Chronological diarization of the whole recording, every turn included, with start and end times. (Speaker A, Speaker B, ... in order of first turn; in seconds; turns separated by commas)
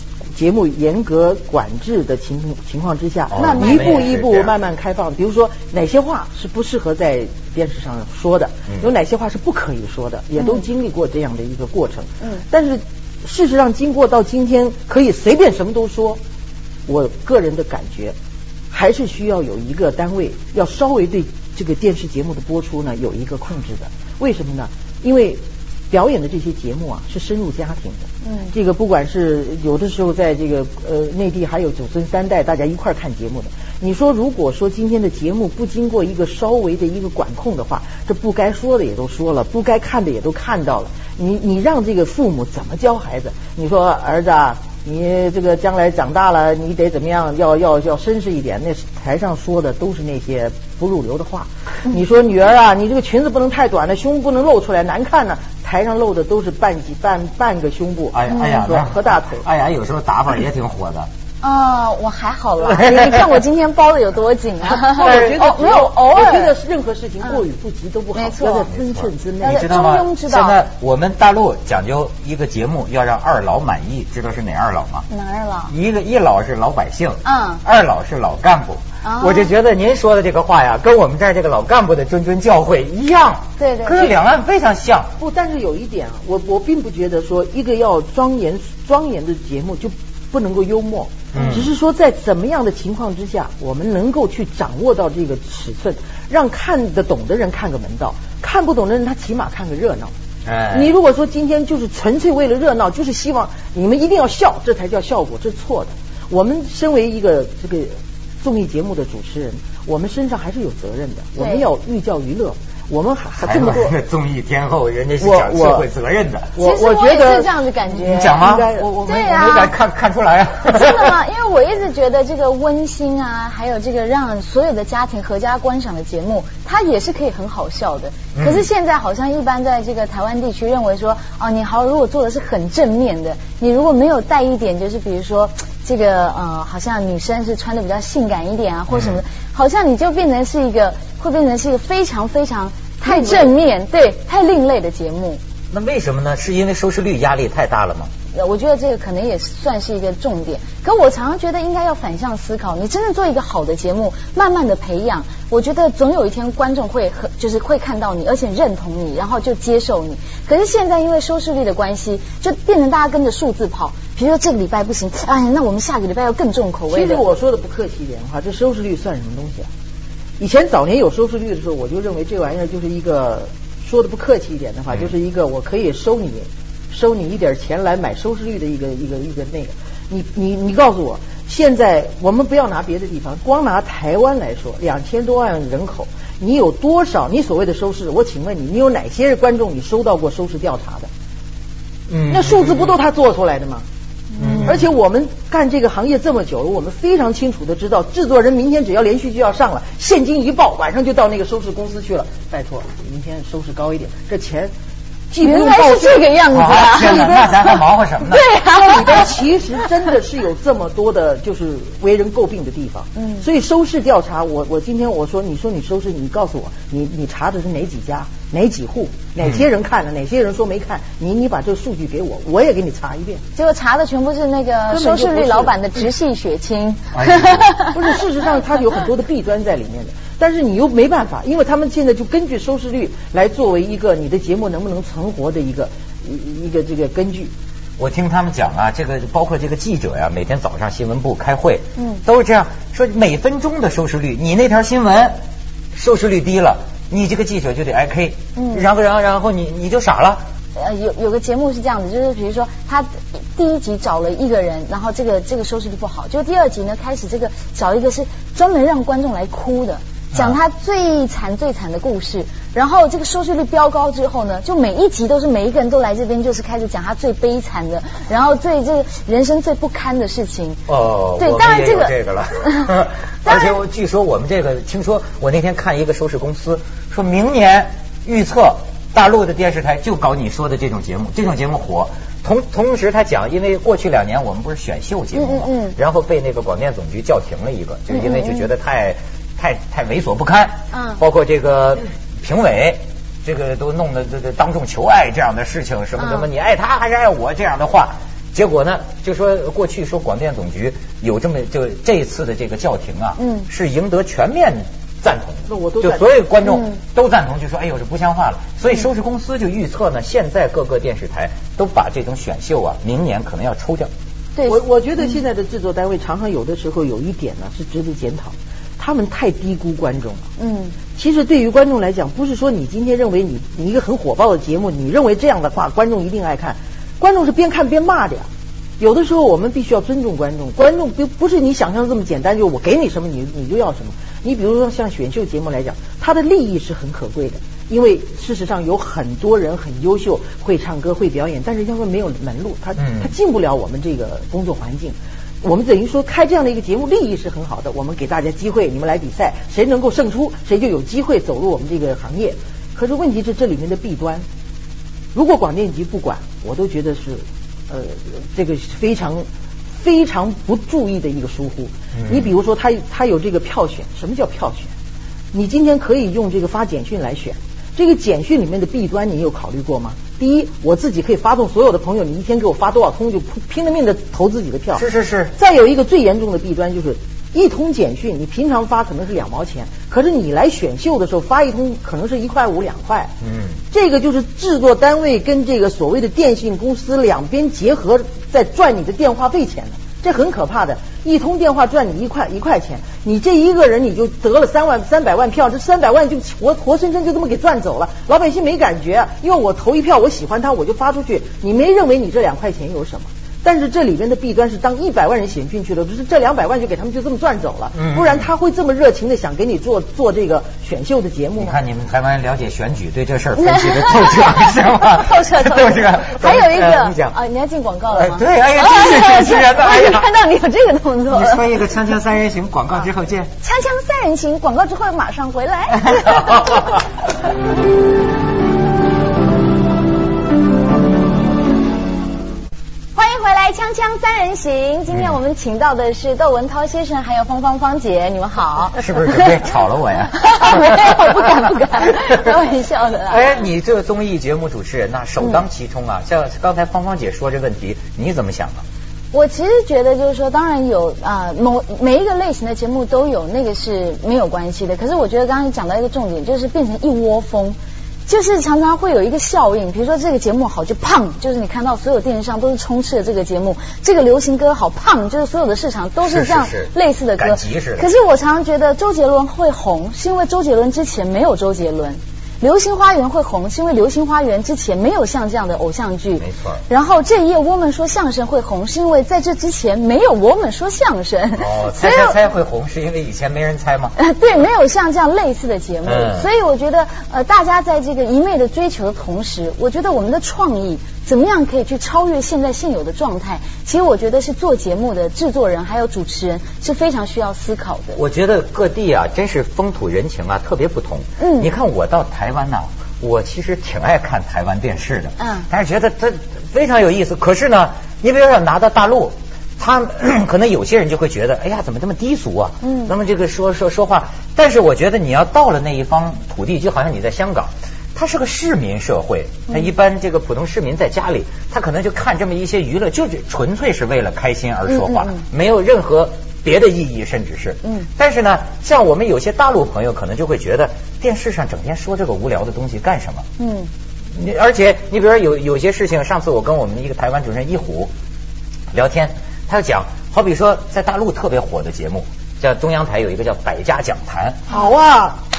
Speaker A: 0.3-16.2, Speaker B: 3.3-4.5, Speaker C: 3.4-4.2, Speaker A: 16.9-18.1, Speaker A: 18.7-59.5, Speaker C: 28.2-28.5, Speaker B: 58.1-61.1, Speaker C: 58.3-58.7, Speaker C: 61.4-66.5, Speaker B: 62.7-63.3, Speaker A: 64.9-69.8, Speaker B: 65.0-65.3, Speaker C: 68.2-68.7, Speaker B: 68.7-75.0, Speaker C: 69.4-70.6, Speaker C: 75.1-75.7, Speaker B: 75.7-85.1, Speaker C: 77.2-77.6, Speaker C: 79.0-79.5, Speaker C: 83.6-84.2, Speaker A: 85.2-100.1, Speaker C: 91.3-91.6, Speaker B: 91.3-91.7, Speaker B: 100.5-101.0, Speaker A: 100.7-114.0, Speaker C: 111.4-111.7, Speaker B: 113.4-116.5, Speaker A: 115.2-115.9, Speaker A: 116.5-117.5, Speaker C: 116.6-119.7, Speaker B: 118.0-118.7, Speaker A: 118.2-119.4, Speaker B: 119.2-121.2, Speaker C: 120.7-145.4, Speaker B: 128.3-128.7, Speaker B: 138.9-139.2, Speaker B: 145.7-148.1, Speaker C: 148.3-167.2, Speaker A: 166.9-169.7, Speaker A: 170.4-191.1, Speaker B: 192.1-193.0, Speaker A: 192.3-193.8, Speaker C: 194.3-194.8, Speaker B: 194.4-194.9, Speaker A: 194.7-204.7, Speaker A: 205.3-207.6, Speaker C: 205.4-209.3, Speaker B: 206.5-208.4, Speaker A: 208.7-223.4, Speaker C: 213.2-213.4, Speaker C: 223.6-228.1, Speaker A: 224.9-225.8, Speaker B: 227.1-227.7, Speaker A: 227.9-237.5, Speaker B: 238.0-245.4, Speaker C: 242.0-242.2, Speaker B: 245.9-250.4, Speaker C: 248.6-248.9, Speaker C: 250.8-270.8, Speaker B: 270.9-314.1, Speaker C: 271.4-272.9, Speaker C: 273.5-273.8, Speaker C: 285.3-286.0, Speaker C: 288.1-288.7, Speaker C: 290.9-291.2, Speaker C: 296.2-296.5, Speaker C: 303.4-303.7, Speaker A: 305.7-306.3, Speaker C: 306.6-307.0, Speaker A: 314.7-320.5, Speaker C: 320.6-321.0, Speaker A: 321.1-328.5, Speaker A: 329.0-354.4, Speaker B: 343.0-343.3, Speaker A: 355.4-359.5, Speaker A: 360.0-364.9, Speaker B: 362.1-362.5, Speaker A: 365.5-383.3, Speaker B: 374.9-375.5, Speaker B: 383.4-383.8, Speaker A: 383.9-411.8, Speaker B: 407.9-408.5, Speaker B: 411.6-417.4, Speaker C: 413.6-421.7, Speaker B: 418.1-420.3, Speaker B: 421.3-423.5, Speaker C: 423.6-427.0, Speaker B: 426.1-427.0, Speaker C: 433.2-439.6, Speaker B: 439.0-441.5, Speaker C: 440.3-443.6, Speaker B: 443.3-448.8, Speaker C: 449.3-457.8, Speaker C: 458.3-482.4, Speaker B: 466.2-468.1, Speaker B: 476.4-476.8, Speaker B: 481.6-484.1, Speaker C: 484.2-498.2, Speaker B: 486.1-486.5, Speaker B: 498.2-533.5, Speaker C: 501.4-501.7, Speaker C: 505.4-505.7, Speaker C: 512.8-513.1, Speaker C: 524.9-525.4, Speaker C: 533.6-533.9, Speaker B: 534.3-538.1, Speaker B: 538.9-544.6, Speaker A: 544.7-545.4